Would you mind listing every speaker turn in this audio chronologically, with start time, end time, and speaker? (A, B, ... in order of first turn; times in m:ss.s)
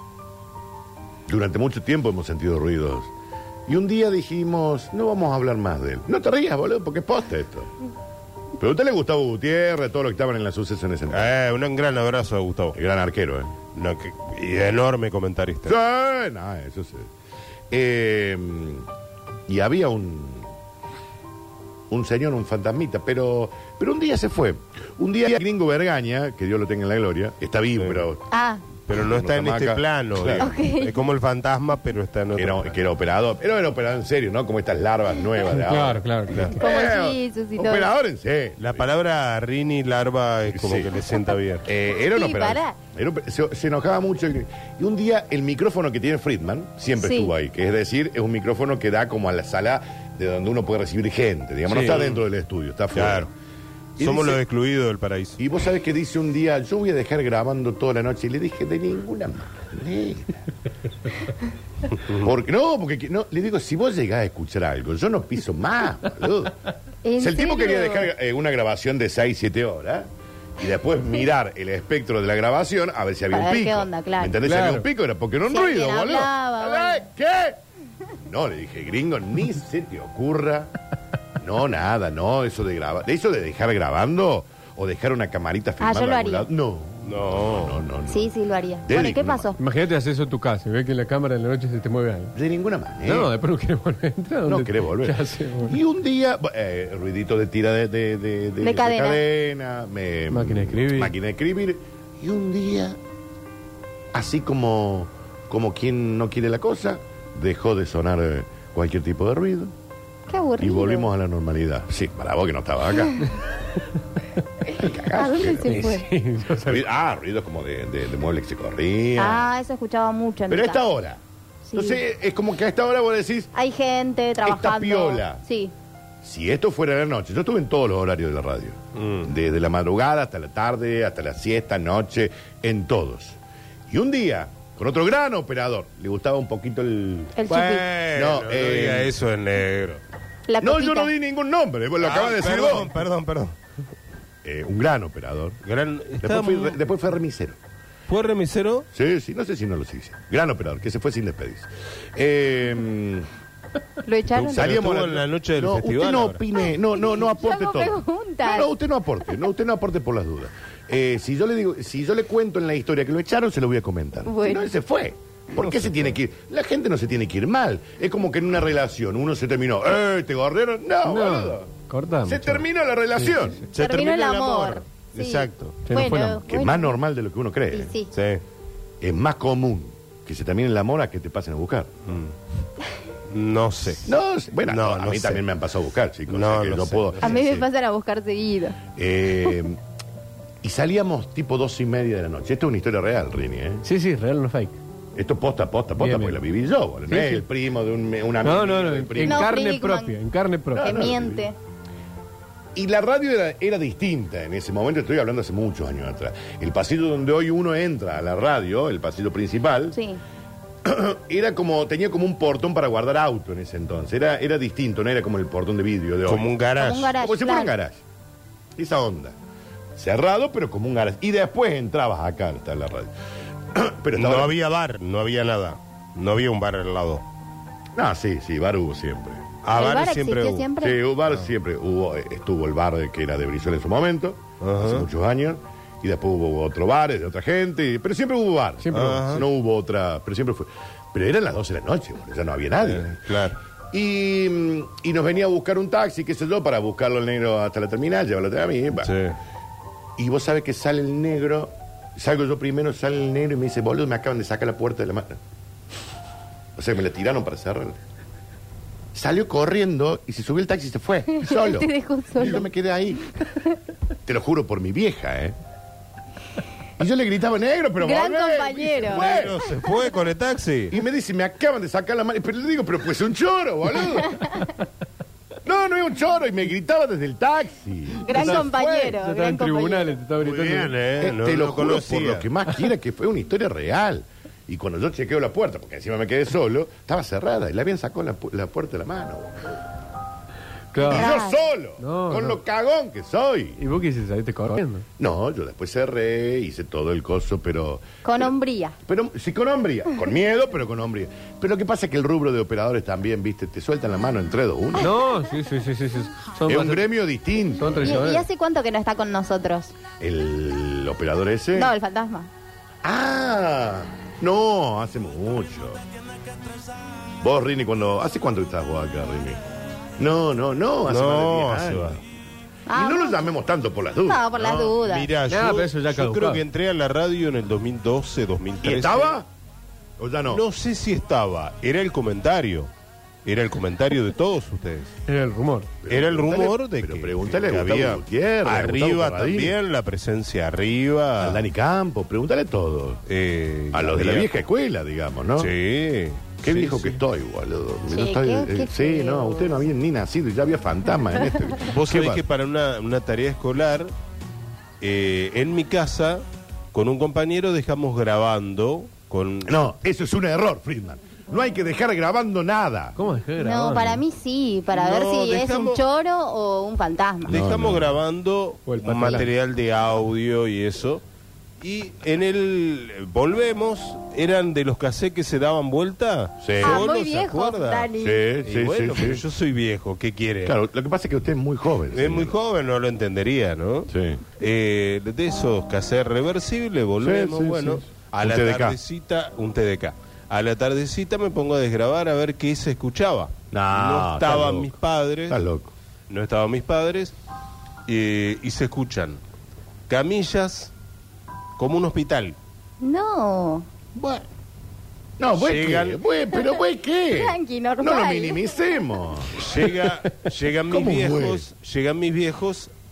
0:01.3-0:03.1 A
0:03.7-0:07.7 A
0:08.6-0:11.3 A
0:11.1-0:12.8 B
0:12.7-0:13.6 A
0:13.7-0:15.8 B
0:15.6-0:17.1 A
0:17.7-0:18.9 A
0:19.5-0:20.5 A
0:21.9-0:28.2 A
0:27.8-0:28.1 B
0:28.3-0:28.6 C
0:28.9-0:32.8 B
0:28.9-0:30.5 A
0:30.4-0:31.0 C
0:32.4-0:38.9 A
0:35.4-0:36.6 D
0:36.3-0:36.6 B
0:36.6-0:37.9 C
0:38.6-0:41.7 B
0:40.5-0:40.9 A
0:41.6-0:53.3 A
0:42.1-0:42.8 C
0:47.0-0:47.3 C
0:51.7-0:52.2 B
0:52.9-0:53.3 B
0:54.0-0:54.4 A
0:54.0-0:55.4 B
0:55.4-1:00.5 A
1:02.1-1:06.6 A
1:07.0-1:08.1 C
1:07.2-1:17.6 A
1:13.3-1:14.4 C
1:14.5-1:14.9 D
1:15.4-1:17.0 C
1:18.2-1:20.7 A
1:21.4-1:28.3 A
1:25.8-1:26.5 C
1:27.0-1:27.8 B
1:28.1-1:29.6 C
1:28.8-1:29.5 A
1:29.6-1:32.3 D
1:32.4-1:33.3 A
1:33.0-1:35.8 D
1:34.4-1:43.0 A
1:38.6-1:39.2 C
1:40.3-1:41.2 D
1:44.1-1:49.7 A
1:50.3-1:51.1 C
1:50.6-1:53.3 A
1:54.7-1:55.9 A
1:55.1-1:56.1 C
1:55.6-1:56.8 D
1:56.6-1:59.5 A
1:59.2-2:00.8 C
2:00.5-2:01.2 A
2:01.6-2:02.0 C
2:01.7-2:03.5 A
2:03.5-2:05.7 C
2:04.4-2:05.4 A
2:06.2-2:13.4 A
2:09.0-2:09.3 B
2:13.9-2:17.4 A
2:17.4-2:17.9 C
2:17.5-2:20.0 B
2:18.2-2:19.1 A
2:20.5-2:21.1 C
2:20.6-2:22.9 A
2:22.0-2:23.6 B
2:24.4-2:25.6 A
2:25.6-2:26.8 B
2:26.2-2:27.6 A
2:28.1-2:28.8 B
2:28.9-2:33.3 A
2:34.0-2:34.7 C
2:34.3-2:51.7 A
2:34.5-2:36.4 B
2:37.1-2:38.7 C
2:44.3-2:44.7 C
2:45.6-2:46.2 B
2:51.0-2:52.6 D
2:52.3-2:53.6 A
2:53.2-2:53.6 D
2:53.7-2:55.8 B
2:53.8-2:57.0 C
2:55.9-2:56.4 D
2:56.5-2:57.9 A
2:57.7-2:58.1 C
2:58.1-2:58.4 B
2:59.0-3:01.9 A
3:02.1-3:02.3 B
3:03.3-3:04.1 B
3:04.0-3:07.7 A
3:04.6-3:05.4 B
3:06.3-3:07.3 B
3:07.2-3:08.8 C
3:09.0-3:09.8 A
3:10.6-3:13.8 A
3:13.8-3:14.8 D
3:15.2-3:19.5 A
3:16.0-3:16.4 D
3:17.1-3:17.5 D
3:18.4-3:21.0 D
3:19.2-3:20.2 C
3:20.7-3:21.4 A
3:20.8-3:21.6 C
3:22.8-3:30.0 A
3:29.9-3:30.2 C
3:30.8-3:36.6 A
3:36.2-3:37.2 B
3:36.8-3:37.8 C
3:37.2-3:38.0 A
3:38.8-3:39.4 A
3:40.0-3:43.1 A
3:43.7-3:44.5 A
3:44.2-3:47.2 B
3:48.0-3:49.4 A
3:49.6-3:50.7 B
3:49.7-3:51.0 C
3:50.8-4:03.2 A
3:54.6-3:55.1 B
3:58.8-3:59.4 D
3:58.9-3:59.4 B
4:02.8-4:03.6 B
4:03.9-4:09.1 A
4:09.0-4:09.4 B
4:10.2-4:15.4 A
4:16.8-4:18.0 A
4:19.1-4:23.3 A
4:21.4-4:22.7 C
4:24.3-4:25.6 A
4:27.0-4:29.6 A
4:28.0-4:29.3 C
4:29.1-4:31.0 B
4:30.9-4:34.5 A
4:35.6-4:39.1 A
4:38.2-4:40.2 C
4:38.3-4:41.0 D
4:40.4-4:49.8 A
4:40.8-4:42.5 B
4:50.9-4:51.4 D
4:51.0-4:51.6 C
4:51.1-4:53.8 A
4:52.0-4:52.6 D
4:53.8-4:55.1 D
4:55.2-4:58.5 A
4:58.2-4:59.0 C
4:59.0-5:05.1 A
5:05.0-5:07.1 D
5:06.7-5:08.2 A
5:07.8-5:08.5 D
5:08.0-5:09.9 C
5:10.2-5:11.9 A
5:11.8-5:12.5 C
5:13.0-5:16.0 A
5:17.4-5:19.6 A
5:20.2-5:22.2 A
5:21.1-5:22.2 B
5:22.9-5:23.4 C
5:22.9-5:24.5 A
5:24.3-5:25.3 C
5:24.6-5:29.4 B
5:25.5-5:26.6 D
5:28.8-5:29.5 A
5:30.2-5:30.6 A
5:30.5-5:32.9 B
5:33.4-5:35.1 B
5:35.3-5:35.9 D
5:36.0-5:39.8 A
5:36.1-5:41.7 B
5:41.4-5:43.2 A
5:43.3-5:44.6 B
5:43.9-5:45.7 A
5:45.6-5:47.2 B
5:46.6-5:52.4 A
5:48.1-5:49.8 C
5:51.8-5:54.1 B
5:55.0-5:59.9 B
5:59.6-6:03.2 A
6:03.2-6:04.2 D
6:03.6-6:07.6 C
6:04.9-6:06.0 B
6:07.4-6:08.2 A
6:07.5-6:11.2 B
6:08.9-6:09.5 D
6:09.0-6:09.5 A
6:11.8-6:18.1 B
6:16.6-6:17.0 A
6:16.8-6:18.5 C
6:18.2-6:19.4 A
6:18.6-6:20.8 B
6:20.6-6:22.5 A
6:22.1-6:35.6 B
6:24.1-6:24.4 A
6:27.2-6:29.0 A
6:33.7-6:34.9 A
6:35.5-6:35.9 A
6:36.3-6:37.3 B
6:38.1-6:39.4 B
6:40.1-6:40.9 B
6:41.8-6:42.6 B
6:43.0-6:43.9 C
6:44.2-6:44.4 B
6:45.4-6:49.6 A
6:45.6-6:46.2 B
6:47.3-6:48.6 C
6:49.6-6:52.9 B
6:50.9-6:51.6 A